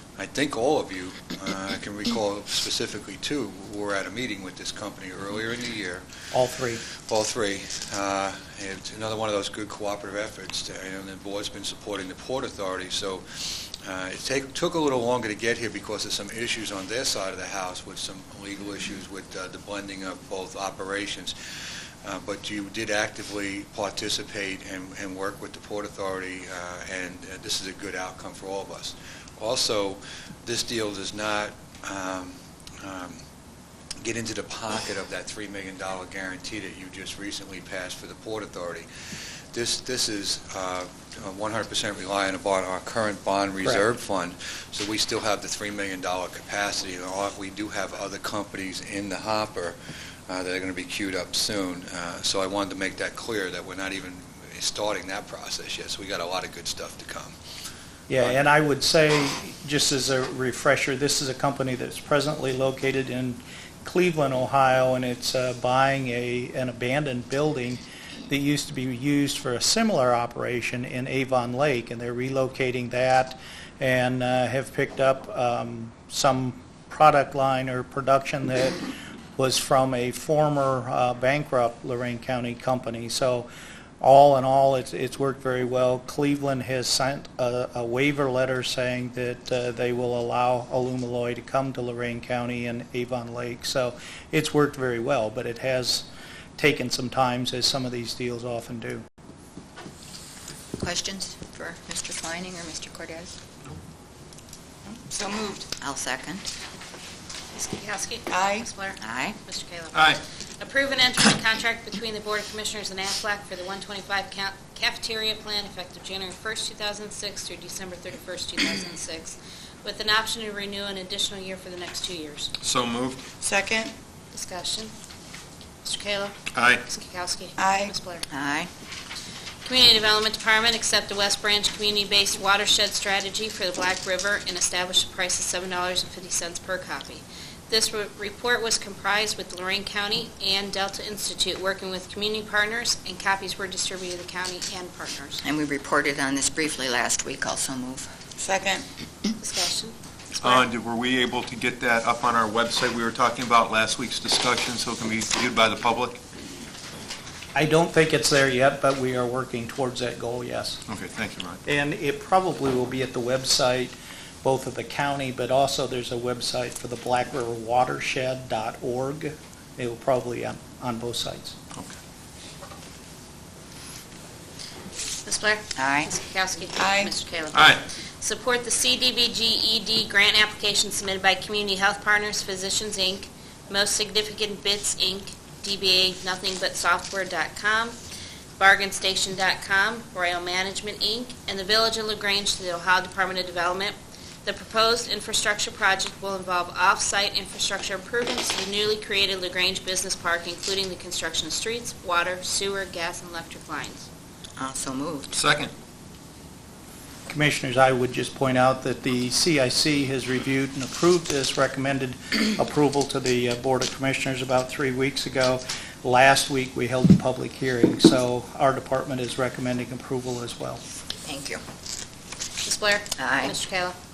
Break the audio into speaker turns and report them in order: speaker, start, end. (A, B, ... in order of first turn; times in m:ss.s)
0:00.2-0:06.0 A
0:06.3-0:06.8 B
0:07.0-0:21.3 A
0:22.0-0:33.2 A
0:34.0-0:38.9 A
0:39.5-0:49.8 A
0:50.3-0:57.3 A
0:58.1-1:18.8 B
1:19.4-1:23.5 B
1:24.0-1:36.0 B
1:36.6-1:39.0 B
1:40.8-1:43.4 C
1:44.9-1:45.7 D
1:45.2-1:46.5 C
1:47.5-2:02.5 E
1:48.3-1:48.7 D
1:49.0-1:49.4 C
1:49.9-1:50.2 F
2:02.6-2:03.3 F
2:03.4-2:03.9 C
2:04.3-2:04.9 E
2:05.8-2:08.2 E
2:06.5-2:06.8 F
2:07.6-2:07.9 D
2:08.3-2:08.7 C
2:09.6-2:25.4 E
2:25.4-2:28.1 C
2:28.4-2:28.8 D
2:29.4-2:30.6 E
2:30.4-2:36.2 F
2:37.5-2:40.8 B
2:40.9-2:41.6 F
2:41.6-2:51.6 B
2:55.2-3:08.0 E
2:55.8-2:56.1 C
2:56.8-2:57.1 D
2:57.5-2:57.8 F
3:08.6-3:24.1 E
3:24.6-3:25.4 C
3:25.3-3:25.7 F
3:27.3-3:40.8 B
3:41.2-3:41.6 C
3:42.6-3:44.0 E
3:43.2-3:43.6 C